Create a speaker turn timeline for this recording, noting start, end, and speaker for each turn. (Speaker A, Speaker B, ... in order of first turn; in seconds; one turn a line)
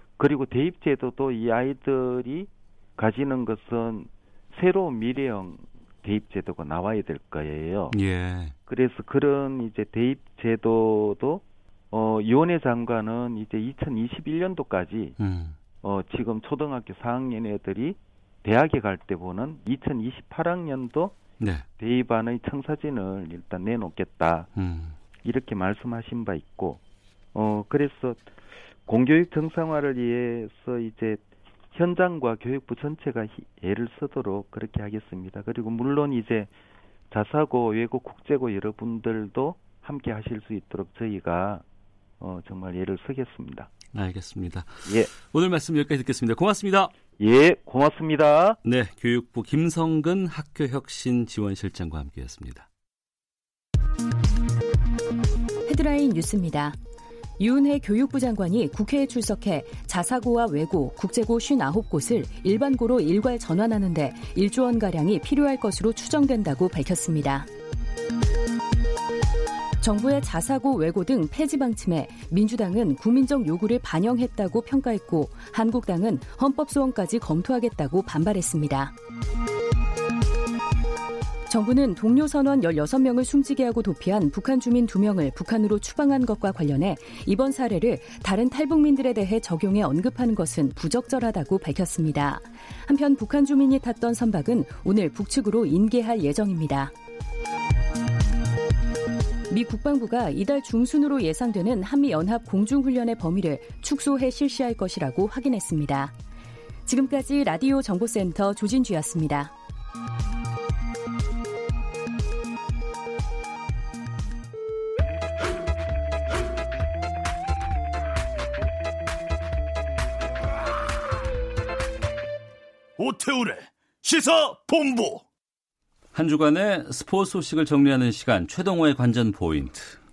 Speaker A: 0.2-8.0
Speaker B: 7.9-8.6
Speaker A: 8.7-15.2
Speaker B: 15.2-15.6
Speaker A: 15.8-21.1
Speaker B: 21.4-21.7
Speaker A: 21.8-24.5
Speaker B: 24.6-25.0
Speaker A: 25.2-26.8
Speaker A: 27.3-28.2
Speaker A: 28.9-31.2
Speaker A: 31.7-36.5
Speaker A: 37.1-41.6
Speaker A: 42.2-43.7
Speaker B: 43.9-46.9
Speaker A: 44.9-45.1
Speaker A: 47.2-48.6
Speaker B: 48.6-52.7
Speaker C: 55.7-56.8
Speaker C: 57.4-67.5
Speaker C: 69.8-78.9
Speaker C: 81.5-96.9
Speaker C: 99.5-106.2
Speaker C: 106.9-109.5
Speaker D: 123.0-125.2
Speaker B: 126.1-130.0